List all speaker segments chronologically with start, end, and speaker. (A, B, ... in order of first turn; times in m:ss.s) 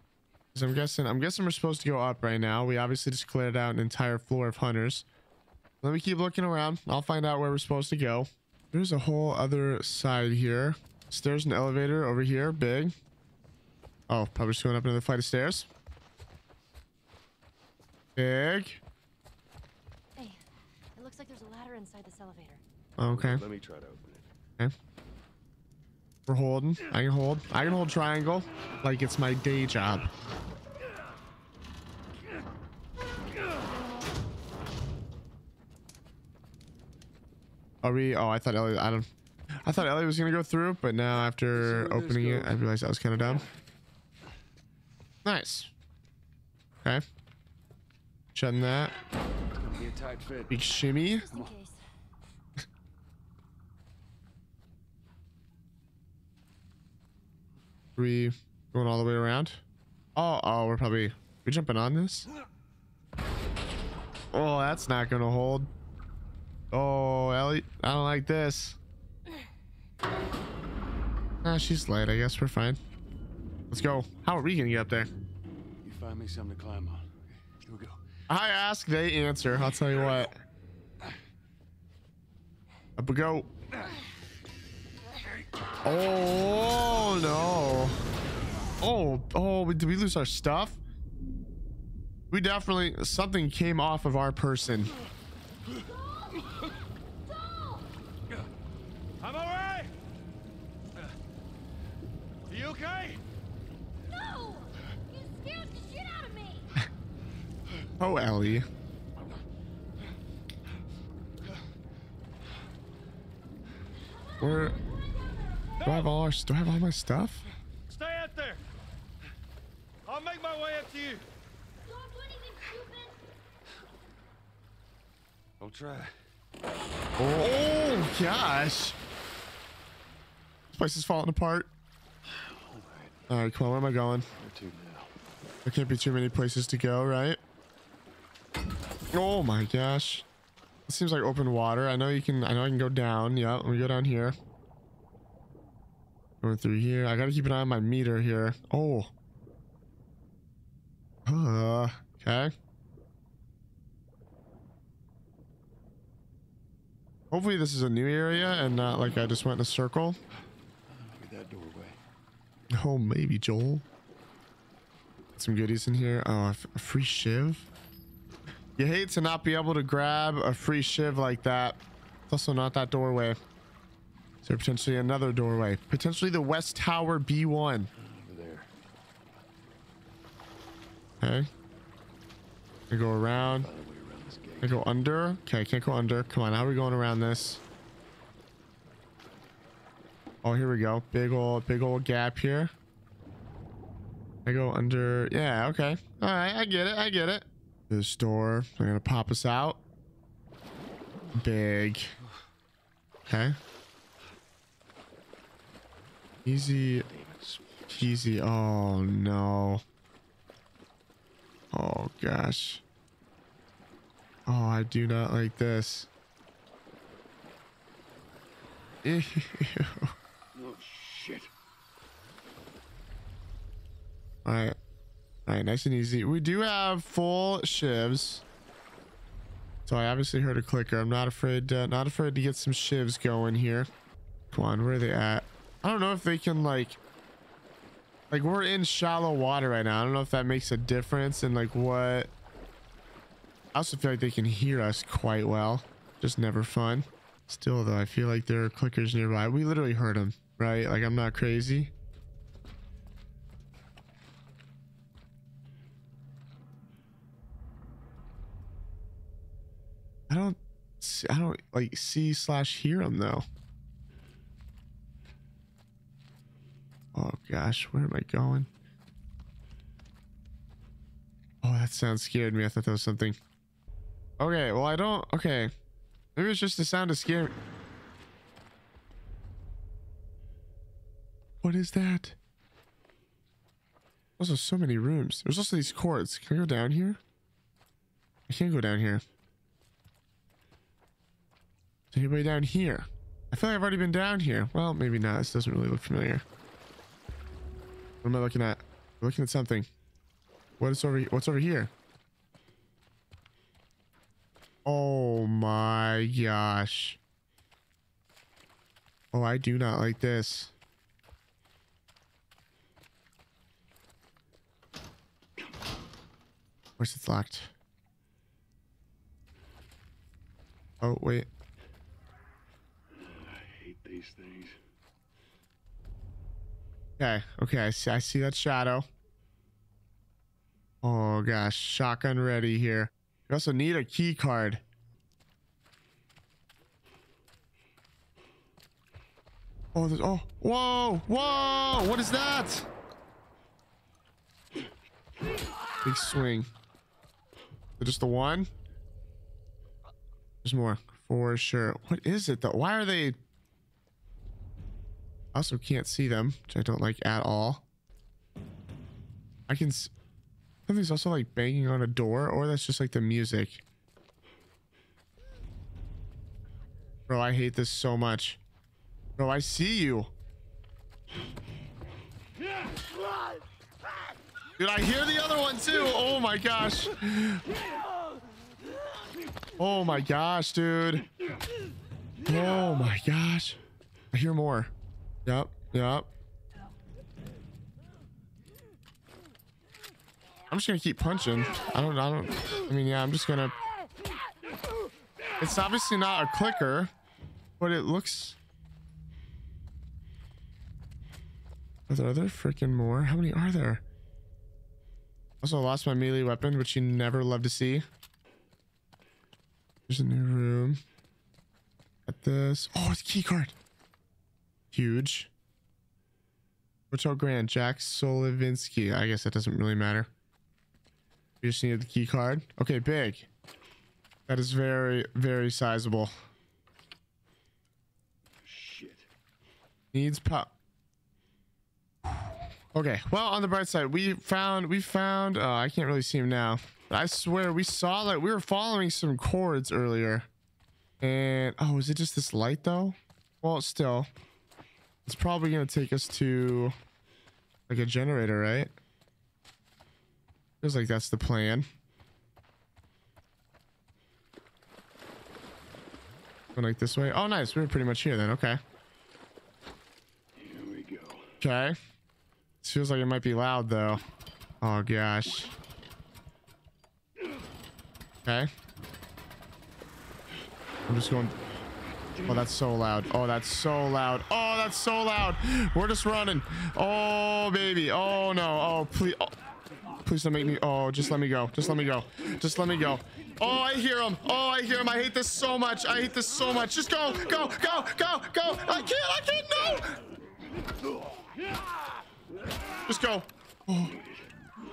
0:00.5-0:05.0 A
0:05.8-0:12.9 A
0:14.1-0:15.7 A
0:18.2-0:18.8 A
0:20.9-0:22.6 B
0:23.0-0:23.4 A
0:23.1-0:24.3 C
0:26.3-0:30.1 A
0:37.8-0:39.1 A
0:39.6-0:43.4 A
0:41.5-0:42.6 C
0:45.2-0:45.7 A
0:48.3-0:48.9 A
0:49.5-0:50.5 C
0:50.5-0:51.2 A
0:50.7-0:51.8 B
0:58.0-0:59.6 A
1:00.1-1:02.3 A
1:04.3-1:05.7 A
1:06.7-1:08.8 A
1:11.4-1:12.8 A
1:13.7-1:15.1 A
1:15.8-1:18.0 C
1:18.3-1:20.4 A
1:23.0-1:23.5 A
1:25.8-1:28.0 A
1:28.8-1:30.8 A
1:32.3-1:34.9 A
1:35.8-1:37.9 B
1:39.2-1:39.9 D
1:42.5-1:43.2 D
1:44.1-1:46.8 B
1:48.0-1:48.7 A
1:54.1-1:55.8 B
1:54.4-1:54.8 A
1:55.8-1:57.4 A
1:58.0-1:58.5 D
2:00.1-2:01.2 D
2:01.8-2:03.2 B
2:05.6-2:06.1 C
2:07.2-2:09.0 A
2:10.7-2:11.7 A
2:12.2-2:13.2 C
2:13.3-2:14.3 A
2:14.4-2:15.1 C
2:15.6-2:17.4 A
2:19.1-2:20.2 A
2:20.9-2:24.4 A
2:26.4-2:29.1 A
2:31.2-2:32.5 A
2:37.3-2:40.2 A
2:40.9-2:42.0 C
2:42.7-2:43.8 A
2:45.4-2:47.6 A
2:48.8-2:53.4 A
2:54.4-2:57.9 A
2:57.9-2:58.7 C
3:01.2-3:01.5 A
3:02.9-3:03.7 A
3:03.6-3:04.8 C
3:04.6-3:07.6 A
3:10.4-3:12.7 A
3:14.4-3:19.8 A
3:21.4-3:22.1 A
3:23.2-3:23.6 A
3:26.4-3:27.1 A
3:27.0-3:28.1 C
3:27.9-3:29.8 A
3:31.7-3:32.8 A
3:34.4-3:36.1 A
3:39.0-3:40.1 A
3:40.5-3:41.5 C
3:44.4-3:44.8 A
3:45.5-3:48.4 A
3:49.8-3:53.9 A
3:54.5-3:57.0 A
3:58.3-4:02.3 A
4:03.7-4:11.9 A
4:20.3-4:23.4 A
4:27.1-4:28.7 A
4:31.6-4:33.4 A
4:34.4-4:35.7 A
4:36.4-4:37.5 A
4:41.6-4:42.4 A
4:44.4-4:47.2 A
4:48.5-4:49.2 A
4:52.1-4:56.4 A
4:58.2-4:59.9 A
5:00.8-5:01.9 A
5:04.8-5:07.2 A
5:09.3-5:10.7 A
5:17.0-5:17.7 A
5:21.0-5:21.5 A
5:23.1-5:24.8 C
5:27.2-5:29.1 A
5:31.0-5:34.8 A
5:39.9-5:42.9 A
5:46.0-5:46.7 A
5:48.0-5:48.7 A
5:50.6-5:53.4 A
5:55.5-5:57.8 A
5:59.7-6:00.1 A
6:00.9-6:03.8 A
6:07.3-6:08.6 A
6:09.4-6:10.3 A
6:14.8-6:17.7 A
6:19.8-6:21.2 A
6:22.4-6:23.8 A
6:24.3-6:24.9 A
6:25.4-6:26.3 A
6:30.7-6:33.8 A
6:35.6-6:37.1 A
6:37.8-6:38.6 A
6:42.1-6:44.0 A
6:45.6-6:48.0 A
6:50.1-6:51.0 A
6:52.2-6:53.7 A
6:54.9-6:55.5 A
6:57.1-7:00.3 A
7:01.6-7:03.5 A
7:04.5-7:06.3 A
7:08.6-7:09.3 C
7:10.1-7:10.7 A
7:12.9-7:20.5 A
7:21.2-7:24.3 A
7:25.2-7:26.9 A
7:27.9-7:28.9 A
7:30.8-7:31.9 A
7:36.7-7:38.8 A
7:40.6-7:41.5 C
7:41.6-7:42.0 A
7:42.8-7:44.2 A
7:44.8-7:45.7 A
7:48.4-7:48.7 A
7:51.1-7:51.6 A
7:52.4-7:59.5 A
8:00.2-8:10.2 A
8:13.0-8:14.2 A